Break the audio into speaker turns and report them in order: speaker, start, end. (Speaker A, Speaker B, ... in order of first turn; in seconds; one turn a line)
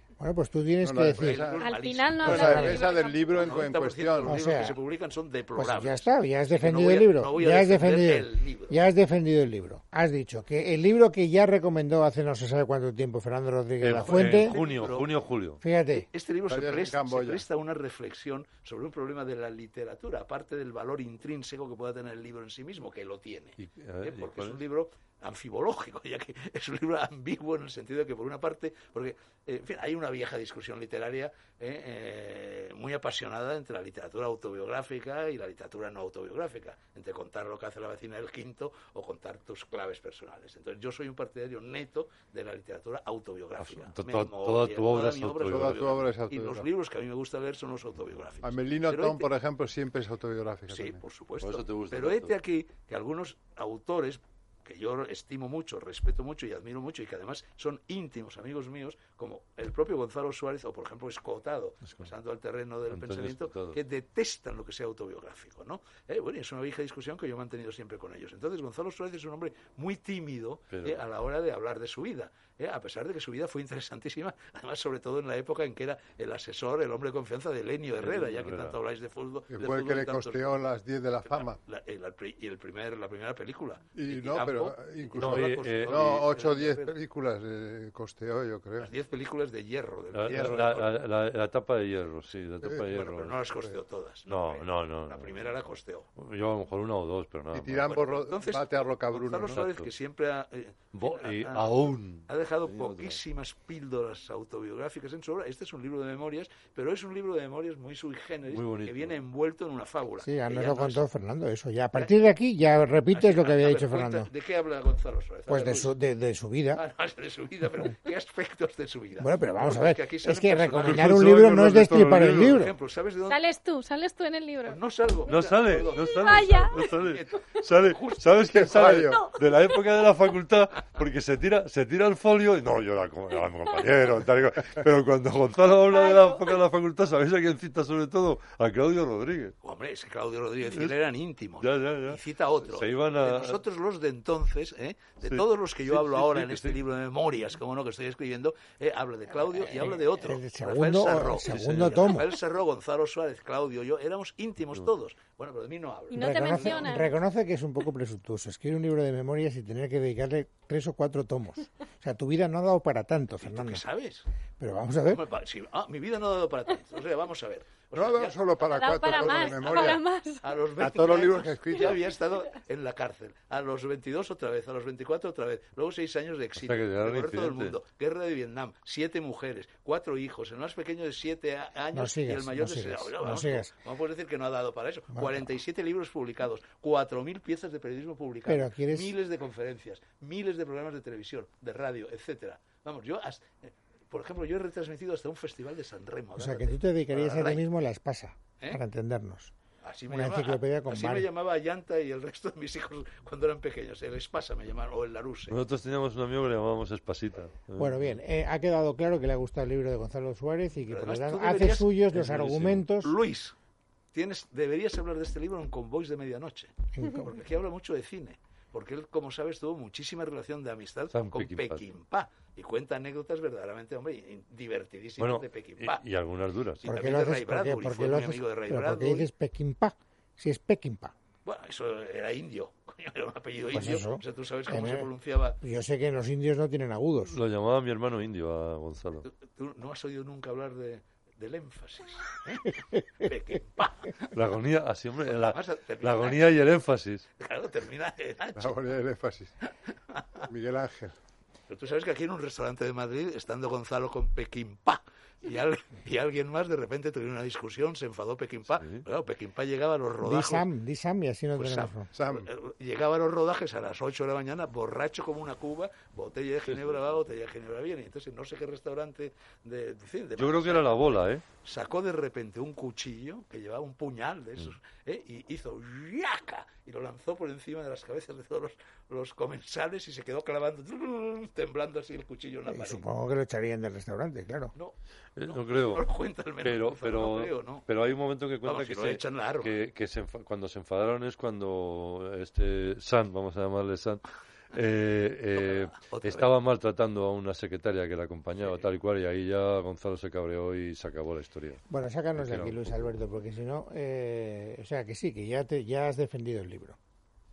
Speaker A: 0.2-1.5
Speaker B: 0.8-4.4
Speaker C: 1.1-8.8
Speaker D: 1.6-3.5
Speaker A: 4.2-4.8
Speaker A: 5.6-14.6
Speaker E: 13.8-15.6
Speaker C: 14.0-15.1
Speaker A: 15.6-16.1
Speaker C: 15.9-49.3
Speaker B: 16.5-17.4
Speaker E: 23.6-24.6
Speaker E: 43.6-45.9
Speaker B: 45.5-46.7
Speaker B: 48.4-51.0
Speaker C: 50.7-80.6
Speaker E: 51.4-52.3
Speaker E: 62.9-63.8
Speaker E: 70.7-71.0
Speaker E: 78.0-78.8
Speaker B: 79.5-81.6
Speaker C: 81.2-87.0
Speaker B: 84.0-88.9
Speaker E: 85.2-86.3
Speaker C: 88.8-90.9
Speaker E: 90.1-93.4
Speaker C: 92.9-96.1
Speaker E: 94.3-95.5
Speaker E: 96.2-98.0
Speaker B: 97.5-99.6
Speaker C: 97.8-111.0
Speaker E: 99.5-99.9
Speaker E: 100.9-103.2
Speaker E: 108.5-109.2
Speaker A: 110.2-114.3
Speaker C: 113.1-116.0
Speaker A: 115.5-116.8
Speaker C: 116.8-121.2
Speaker A: 119.2-122.7
Speaker E: 120.8-122.6
Speaker C: 122.3-123.4
Speaker D: 123.3-124.8
Speaker C: 124.7-128.7
Speaker E: 125.3-139.6
Speaker D: 125.9-126.8
Speaker B: 128.5-129.3
Speaker D: 135.9-136.6
Speaker C: 139.6-157.0
Speaker E: 141.6-143.6
Speaker E: 145.2-146.8
Speaker A: 149.5-152.4
Speaker E: 151.5-152.2
Speaker D: 156.1-157.1
Speaker A: 156.1-163.8
Speaker C: 163.4-164.3
Speaker A: 164.6-165.2
Speaker C: 165.1-197.7
Speaker B: 167.9-170.0
Speaker D: 168.7-170.5
Speaker B: 170.8-172.0
Speaker E: 176.6-177.8
Speaker A: 181.9-183.7
Speaker A: 185.1-185.5
Speaker A: 188.5-189.1
Speaker A: 196.4-199.5
Speaker C: 199.8-205.6
Speaker A: 200.1-201.3
Speaker E: 205.5-208.2
Speaker A: 207.8-213.2
Speaker C: 210.9-211.9
Speaker E: 212.1-212.8
Speaker C: 213.0-213.6
Speaker C: 214.1-226.0
Speaker A: 216.9-217.3
Speaker E: 221.1-221.8
Speaker E: 225.2-226.8
Speaker C: 226.8-229.3
Speaker A: 226.8-231.2
Speaker C: 231.4-235.6
Speaker A: 233.7-237.4
Speaker E: 237.3-239.3
Speaker C: 239.2-244.3
Speaker A: 242.8-243.3
Speaker E: 244.3-247.3
Speaker C: 245.3-246.4
Speaker C: 247.4-248.8
Speaker B: 248.6-249.5
Speaker C: 250.1-250.5
Speaker B: 250.4-251.2
Speaker C: 251.7-260.7
Speaker E: 258.8-259.0
Speaker A: 260.2-262.1
Speaker C: 261.6-283.1
Speaker B: 262.1-262.5
Speaker E: 266.7-266.9
Speaker E: 270.4-271.4
Speaker A: 282.7-284.7
Speaker C: 284.8-287.9
Speaker E: 285.4-286.0
Speaker E: 286.6-301.8
Speaker C: 288.6-289.8
Speaker C: 295.6-296.5
Speaker A: 301.9-307.0
Speaker E: 302.4-303.1